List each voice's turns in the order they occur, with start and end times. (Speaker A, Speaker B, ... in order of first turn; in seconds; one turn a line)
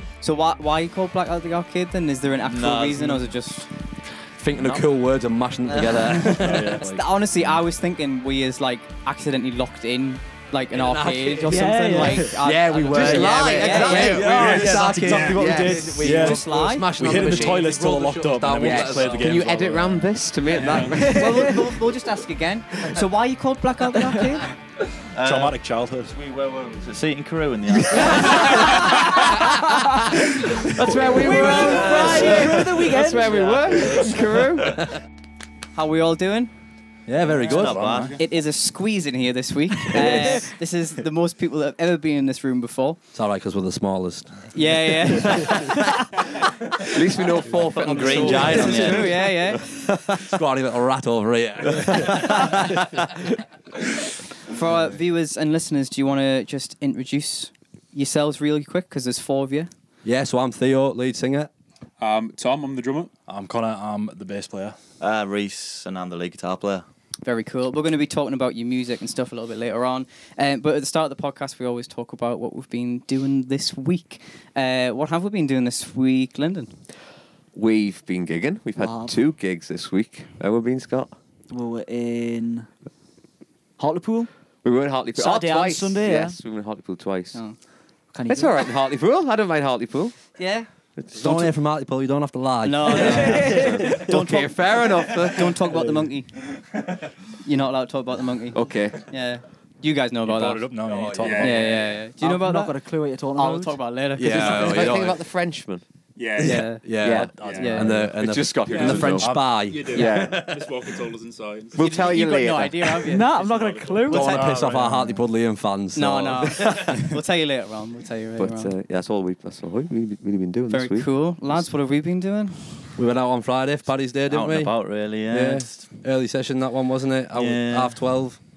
Speaker A: 0.2-3.7
Speaker B: 2.4-3.2
Speaker C: 4.3-6.8
Speaker B: 4.5-4.8
Speaker B: 5.7-6.3
Speaker D: 6.1-7.6
Speaker A: 6.7-14.4
Speaker C: 10.7-11.7
Speaker E: 11.4-12.4
Speaker C: 12.2-19.8
Speaker F: 12.8-16.3
Speaker D: 14.1-20.0
Speaker G: 14.4-15.5
Speaker A: 16.0-17.2
Speaker F: 18.5-21.5
Speaker G: 20.5-21.1
Speaker E: 20.9-21.5
Speaker A: 20.9-24.5
Speaker B: 25.1-28.9
Speaker D: 25.2-26.1
Speaker F: 30.8-34.7
Speaker C: 30.9-32.9
Speaker E: 30.9-34.0
Speaker A: 31.4-32.4
Speaker B: 33.4-34.0
Speaker A: 33.9-34.4
Speaker A: 35.7-36.5
Speaker C: 37.1-38.0
Speaker D: 37.2-38.2
Speaker B: 37.4-38.2
Speaker G: 37.9-38.2
Speaker A: 38.2-43.0
Speaker E: 39.9-40.5
Speaker C: 43.1-44.6
Speaker A: 44.5-45.9
Speaker F: 46.9-49.0
Speaker B: 47.4-49.4
Speaker C: 47.6-53.0
Speaker A: 48.3-49.7
Speaker A: 54.5-59.7
Speaker C: 60.0-61.5
Speaker G: 62.0-63.1
Speaker D: 63.3-64.8
Speaker B: 65.0-66.8
Speaker A: 67.2-76.7
Speaker F: 77.5-81.2
Speaker E: 78.8-79.2
Speaker E: 81.5-82.7
Speaker E: 83.8-84.3
Speaker F: 84.6-87.4
Speaker E: 85.2-86.4
Speaker E: 88.1-88.7
Speaker F: 88.2-90.2
Speaker A: 90.4-90.7
Speaker F: 91.0-91.5
Speaker C: 91.1-93.6
Speaker A: 92.6-96.4
Speaker E: 93.0-94.1
Speaker F: 93.6-95.9
Speaker A: 97.4-100.8
Speaker F: 98.5-99.0
Speaker D: 100.2-101.8
Speaker C: 100.8-101.5
Speaker G: 101.2-102.0
Speaker A: 101.4-102.8
Speaker E: 102.2-103.8
Speaker A: 103.3-105.0
Speaker C: 104.2-105.2
Speaker F: 104.2-105.8
Speaker G: 106.2-107.8
Speaker A: 106.4-106.8
Speaker C: 106.4-110.8
Speaker F: 106.4-107.4
Speaker D: 107.1-108.2
Speaker A: 107.4-107.9
Speaker F: 108.1-110.5
Speaker G: 108.7-111.8
Speaker D: 109.1-109.5
Speaker F: 111.7-113.1
Speaker A: 111.8-113.4
Speaker E: 113.0-114.5
Speaker G: 113.4-113.8
Speaker A: 114.0-114.3
Speaker C: 114.1-116.8
Speaker D: 114.1-115.2
Speaker A: 115.9-118.7
Speaker F: 118.4-121.1
Speaker A: 120.7-122.7
Speaker C: 123.0-124.8
Speaker B: 124.3-125.9
Speaker C: 125.3-128.4
Speaker B: 127.3-128.0